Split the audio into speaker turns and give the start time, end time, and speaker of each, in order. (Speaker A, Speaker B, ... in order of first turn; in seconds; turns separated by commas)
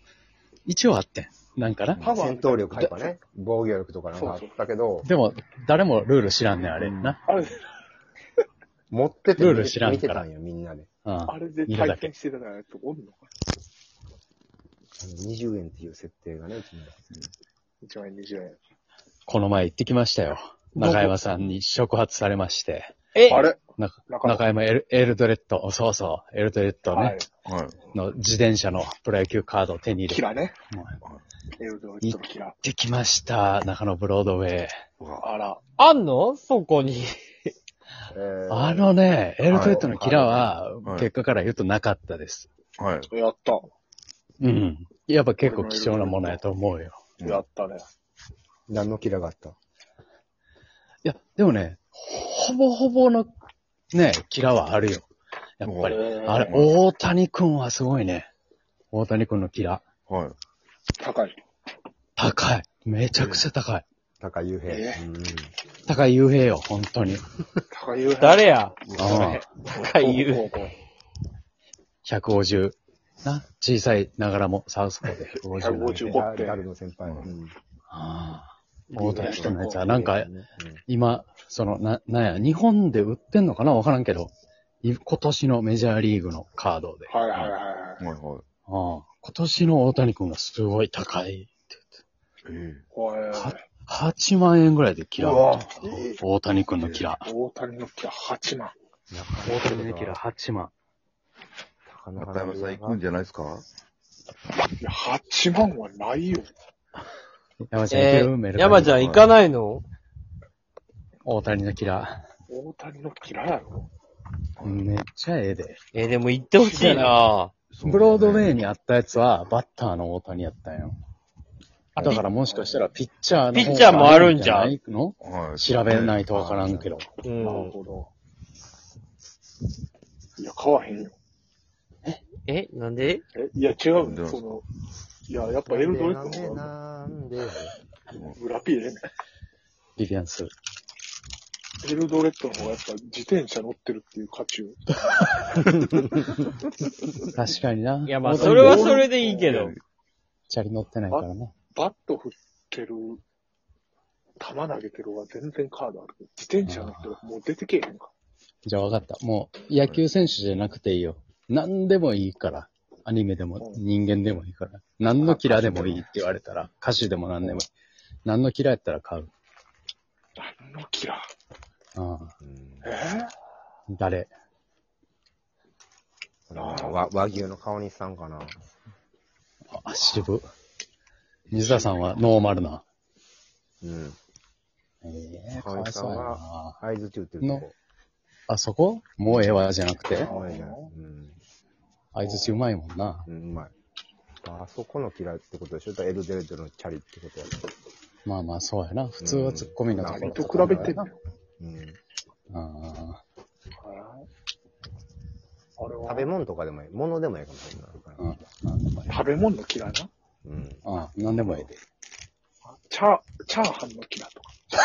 Speaker A: 0.7-2.0, Speaker B: 1.9-2.2, Speaker C: 2.0-2.8, Speaker D: 2.0-5.1, Speaker C: 4.1-4.5, Speaker A: 5.0-7.2, Speaker B: 6.8-7.2, Speaker C: 7.2-7.6, Speaker D: 8.9-10.9, Speaker A: 9.4-10.3, Speaker A: 11.0-12.1, Speaker C: 11.3-13.2, Speaker D: 15.0-16.9, Speaker C: 17.8-18.6, Speaker A: 19.3-22.9, Speaker E: 23.1-23.5, Speaker C: 23.3-24.4, Speaker A: 23.6-27.2, Speaker C: 26.9-27.3, Speaker B: 27.4-27.9, Speaker A: 27.9-31.0, Speaker C: 30.1-30.5, Speaker C: 31.6-32.5, Speaker A: 32.0-34.7, Speaker B: 35.0-35.3, Speaker C: 35.2-35.6, Speaker E: 35.8-37.2, Speaker D: 38.1-38.9, Speaker A: 38.5-42.5, Speaker D: 39.5-40.5, Speaker B: 39.5-40.0, Speaker B: 40.8-41.1, Speaker B: 42.8-43.1, Speaker C: 43.1-43.7, Speaker A: 44.4-47.1, Speaker C: 45.4-46.4, Speaker C: 47.2-47.8, Speaker D: 48.7-49.5, Speaker A: 51.0-53.3, Speaker A: 53.9-55.1, Speaker A: 55.6-58.3, Speaker B: 55.6-56.8, Speaker C: 55.9-56.6, Speaker A: 58.9-59.9, Speaker B: 60.0-60.4, Speaker C: 61.0-61.3, Speaker A: 62.2-63.8, Speaker B: 63.2-63.5, Speaker D: 64.2-65.5, Speaker C: 64.7-65.0, Speaker A: 65.8-67.3, Speaker C: 67.7-68.5, Speaker E: 68.2-70.5, Speaker B: 68.9-69.2, Speaker A: 69.0-69.4, Speaker C: 69.9-70.7, Speaker A: 72.0-76.1, Speaker C: 75.5-76.6, Speaker D: 76.1-77.5, Speaker B: 77.0-77.3, Speaker A: 77.9-80.3, Speaker D: 78.9-80.8, Speaker C: 79.1-79.8, Speaker A: 80.9-84.3, Speaker A: 84.8-87.2, Speaker C: 87.1-88.0, Speaker B: 87.3-88.4, Speaker A: 88.7-92.0, Speaker B: 92.5-92.8, Speaker C: 92.9-93.6, Speaker A: 93.3-97.3, Speaker B: 95.2-96.2, Speaker C: 97.2-98.7, Speaker D: 99.1-100.2, Speaker A: 99.4-100.7, Speaker D: 101.8-103.0, Speaker B: 102.2-103.7, Speaker C: 104.8-106.5, Speaker A: 107.6-109.0, Speaker E: 107.9-109.8, Speaker B: 108.9-109.3, Speaker A: 111.2-112.2, Speaker C: 112.5-113.9, Speaker B: 114.6-114.9, Speaker A: 114.6-115.8, Speaker E: 115.9-117.5, Speaker C: 116.6-117.2, Speaker B: 117.7-118.6, Speaker A: 117.8-120.9, Speaker E: 122.0-122.3, Speaker A: 122.0-127.1, Speaker C: 122.1-122.8, Speaker E: 123.5-124.7, Speaker B: 125.2-126.2, Speaker D: 126.3-127.8, Speaker C: 127.4-128.1, Speaker C: 130.4-131.1, Speaker E: 132.4-133.2, Speaker C: 133.3-134.6, Speaker B: 134.0-134.6, Speaker C: 135.3-136.7, Speaker D: 135.7-137.7, Speaker B: 138.1-138.4, Speaker C: 138.4-139.0, Speaker A: 140.0-140.5, Speaker C: 141.8-144.8, Speaker D: 145.7-146.3, Speaker A: 147.3-148.9, Speaker E: 148.0-149.8, Speaker C: 148.3-149.6, Speaker B: 149.4-149.8, Speaker A: 150.5-151.5, Speaker C: 151.1-153.2, Speaker C: 154.4-158.1, Speaker A: 156.6-157.2, Speaker A: 158.6-167.7, Speaker B: 159.8-160.1, Speaker D: 165.2-166.0, Speaker A: 168.2-169.3, Speaker C: 170.4-171.2, Speaker A: 171.9-172.3, Speaker D: 172.4-172.9, Speaker C: 172.8-173.3, Speaker A: 173.9-174.3, Speaker D: 176.5-178.5, Speaker C: 176.5-177.1, Speaker A: 179.7-180.4, Speaker A: 181.5-182.8, Speaker B: 181.5-182.0, Speaker D: 183.8-184.2, Speaker A: 185.0-186.8, Speaker D: 185.6-187.7, Speaker A: 187.4-187.7, Speaker A: 188.5-190.3, Speaker D: 189.2-191.4, Speaker C: 190.1-190.9, Speaker A: 192.1-193.3, Speaker C: 192.2-192.6, Speaker D: 193.3-193.7, Speaker D: 194.4-197.5, Speaker A: 198.2-201.1, Speaker D: 199.2-200.9, Speaker C: 200.0-201.2, Speaker D: 201.6-202.0, Speaker A: 202.5-203.2, Speaker C: 203.8-204.2, Speaker C: 205.8-206.3, Speaker D: 206.0-208.3, Speaker A: 208.2-209.2, Speaker C: 209.1-210.1, Speaker D: 210.4-210.8, Speaker A: 210.8-211.7, Speaker D: 211.4-211.7, Speaker C: 212.9-214.5